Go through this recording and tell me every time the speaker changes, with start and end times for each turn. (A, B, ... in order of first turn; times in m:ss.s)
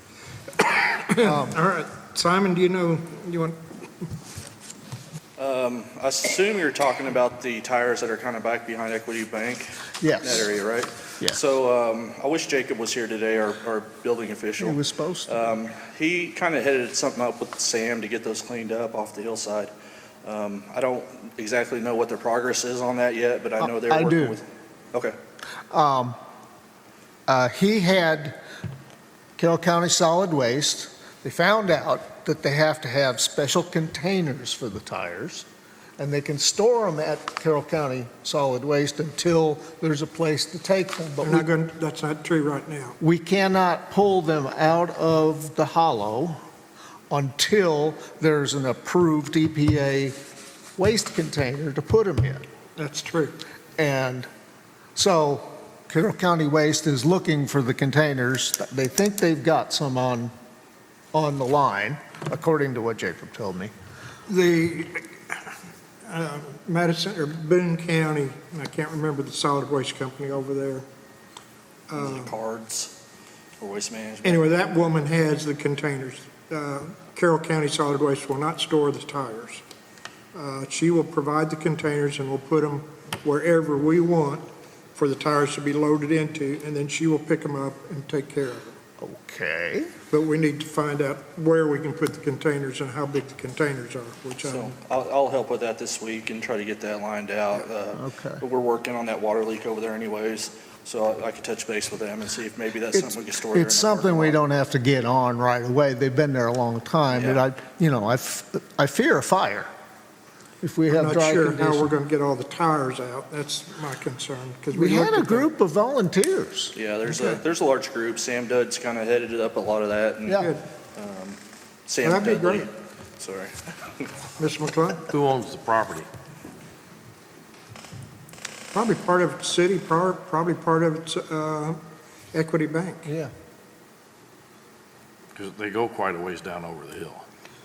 0:00.6-0:03.6 A
0:01.2-0:01.6 B
0:05.4-0:19.7 C
0:10.0-0:10.5 B
0:14.6-0:15.4 B
0:20.2-0:25.1 C
0:23.6-0:24.4 B
0:25.7-0:26.2 B
0:27.3-0:28.4 B
0:29.4-0:35.5 B
0:36.0-0:41.5 B
0:41.2-0:43.0 A
0:43.0-0:46.4 B
0:47.1-0:50.2 B
0:50.8-0:52.4 B
0:52.8-0:53.3 A
0:53.8-0:54.3 B
0:54.9-1:00.3 B
1:01.1-1:03.7 B
1:04.3-1:05.4 A
1:06.0-1:10.8 A
1:11.9-1:12.3 A
1:12.0-1:12.9 C
1:13.6-1:14.5 C
1:14.2-1:19.6 A
1:20.3-1:24.4 A
1:25.0-1:28.7 A
1:29.0-1:29.9 B
1:30.1-1:34.7 A
1:34.4-1:44.4 C
1:37.9-1:38.4 B
1:42.9-1:49.7 B
1:47.1-1:47.4 C
1:50.6-1:51.9 B
1:50.9-1:55.5 A
1:54.7-1:57.4 B
1:56.7-2:04.1 C
2:00.3-2:00.5 B
2:00.3-2:00.6 A
2:02.0-2:02.7 A
2:04.4-2:05.0 A
2:05.1-2:06.0 D
2:08.7-2:11.8 A
2:12.3-2:13.1 A
2:13.0-2:13.3 B
2:15.3-2:17.2 D